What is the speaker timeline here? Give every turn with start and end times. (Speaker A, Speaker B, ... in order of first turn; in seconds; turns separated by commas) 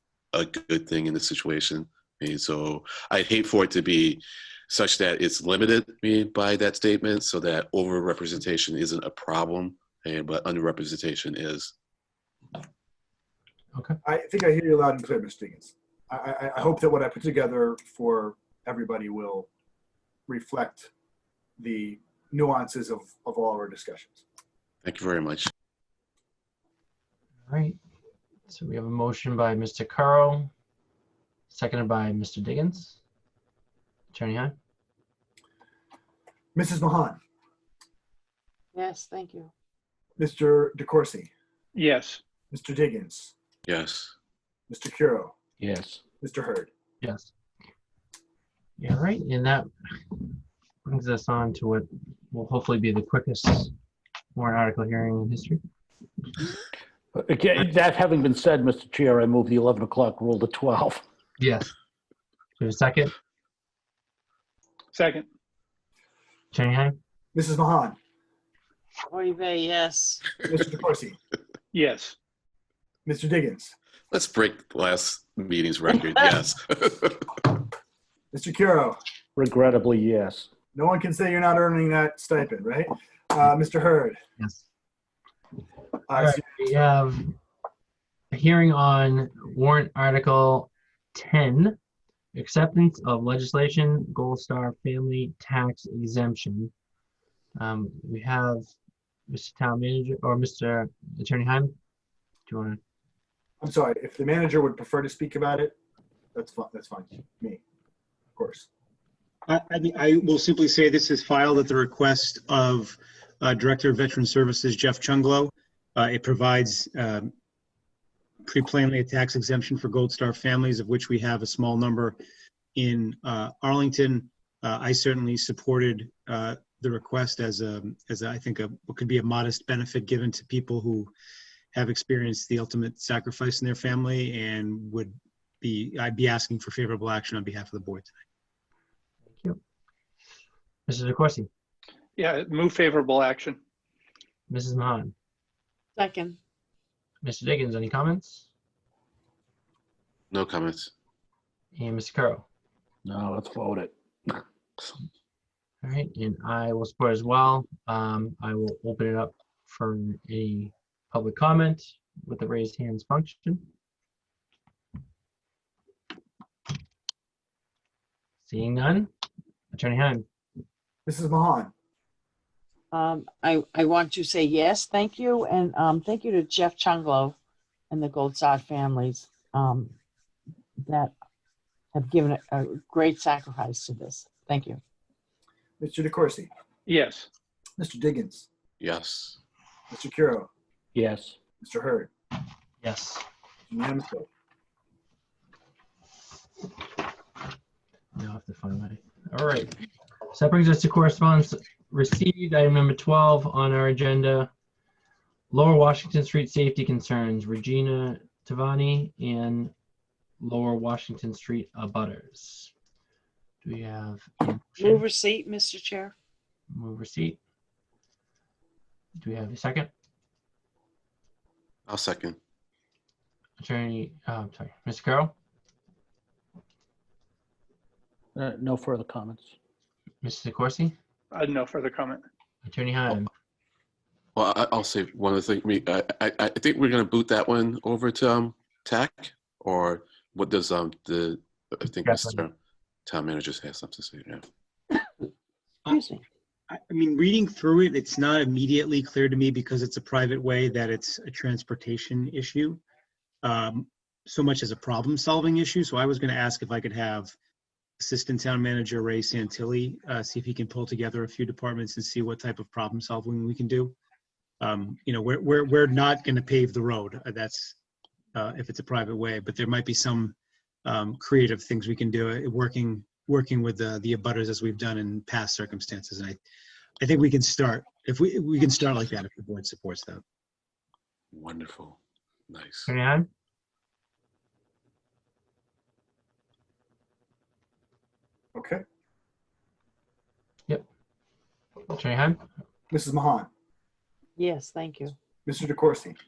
Speaker A: 0.3-11.7, Speaker B: 14.0-19.5, Speaker B: 20.3-20.9, Speaker B: 21.6-24.2, Speaker A: 24.8-25.5, Speaker C: 27.5-27.8, Speaker C: 28.5-30.5, Speaker C: 31.5-33.0, Speaker C: 34.1-34.5, Speaker B: 36.5-37.2, Speaker D: 38.7-39.5, Speaker B: 40.2-41.3, Speaker E: 41.7-42.2, Speaker B: 42.5-43.3, Speaker A: 43.6-44.1, Speaker B: 44.7-45.3, Speaker F: 45.6-46.0, Speaker B: 46.2-46.7, Speaker C: 47.0-47.3, Speaker C: 48.8-50.2, Speaker C: 50.9-53.7, Speaker C: 54.3-55.6, Speaker F: 57.1-61.0, Speaker C: 61.4-61.7, Speaker C: 62.6-63.1, Speaker E: 64.9-65.2, Speaker C: 66.5-67.0, Speaker B: 67.3-68.0, Speaker D: 69.1-70.4, Speaker B: 70.4-71.2, Speaker E: 71.7-72.1, Speaker B: 73.0-73.7, Speaker A: 74.1-77.5, Speaker B: 78.3-79.0, Speaker F: 79.3-80.5, Speaker B: 80.7-84.2, Speaker C: 84.4-84.6, Speaker B: 86.1-86.4, Speaker C: 86.1-87.3, Speaker C: 88.3-91.8, Speaker C: 92.3-96.7, Speaker C: 97.5-98.7, Speaker C: 99.3-101.7, Speaker C: 102.5-102.8, Speaker B: 103.6-105.8, Speaker B: 106.3-107.6, Speaker B: 108.3-108.7, Speaker G: 109.5-117.3, Speaker G: 118.5-122.2, Speaker G: 122.7-131.1, Speaker G: 131.7-138.1, Speaker C: 140.9-141.5, Speaker E: 142.2-143.6, Speaker C: 144.5-145.1, Speaker D: 145.9-146.4, Speaker C: 147.2-148.5, Speaker A: 150.3-150.9, Speaker C: 151.7-152.4, Speaker F: 153.0-154.4, Speaker C: 155.8-163.7, Speaker C: 168.4-169.1, Speaker C: 169.7-170.2, Speaker B: 171.1-171.7, Speaker D: 172.9-177.4, Speaker D: 177.9-179.9, Speaker D: 180.8-181.1, Speaker D: 181.9-184.8, Speaker B: 185.8-186.5, Speaker E: 186.9-187.3, Speaker B: 187.8-188.5, Speaker A: 188.8-189.4, Speaker B: 189.9-190.5, Speaker F: 190.9-191.3, Speaker B: 191.6-192.1, Speaker C: 192.8-193.2, Speaker B: 193.7-194.2, Speaker C: 198.1-199.7, Speaker C: 200.3-204.5, Speaker C: 205.5-209.7, Speaker C: 210.4-212.7, Speaker C: 213.6-215.0, Speaker D: 214.8-216.1, Speaker C: 216.7-217.4, Speaker C: 219.2-219.9, Speaker A: 221.9-222.4, Speaker C: 223.6-225.3, Speaker F: 228.3-229.5, Speaker C: 230.2-230.9, Speaker E: 231.3-232.2, Speaker C: 232.6-233.3, Speaker A: 234.3-242.5, Speaker C: 242.0-242.4, Speaker A: 243.1-244.4, Speaker D: 245.0-245.2, Speaker D: 245.8-246.2, Speaker G: 246.7-252.8, Speaker G: 253.4-257.3, Speaker G: 258.0-263.9, Speaker G: 264.6-267.8, Speaker G: 268.3-276.4, Speaker G: 277.0-280.2, Speaker A: 281.3-282.0, Speaker A: 282.5-282.9, Speaker C: 282.9-283.3, Speaker B: 288.5-288.8, Speaker C: 291.9-292.4, Speaker B: 292.9-293.5, Speaker D: 294.4-295.1, Speaker B: 295.4-296.2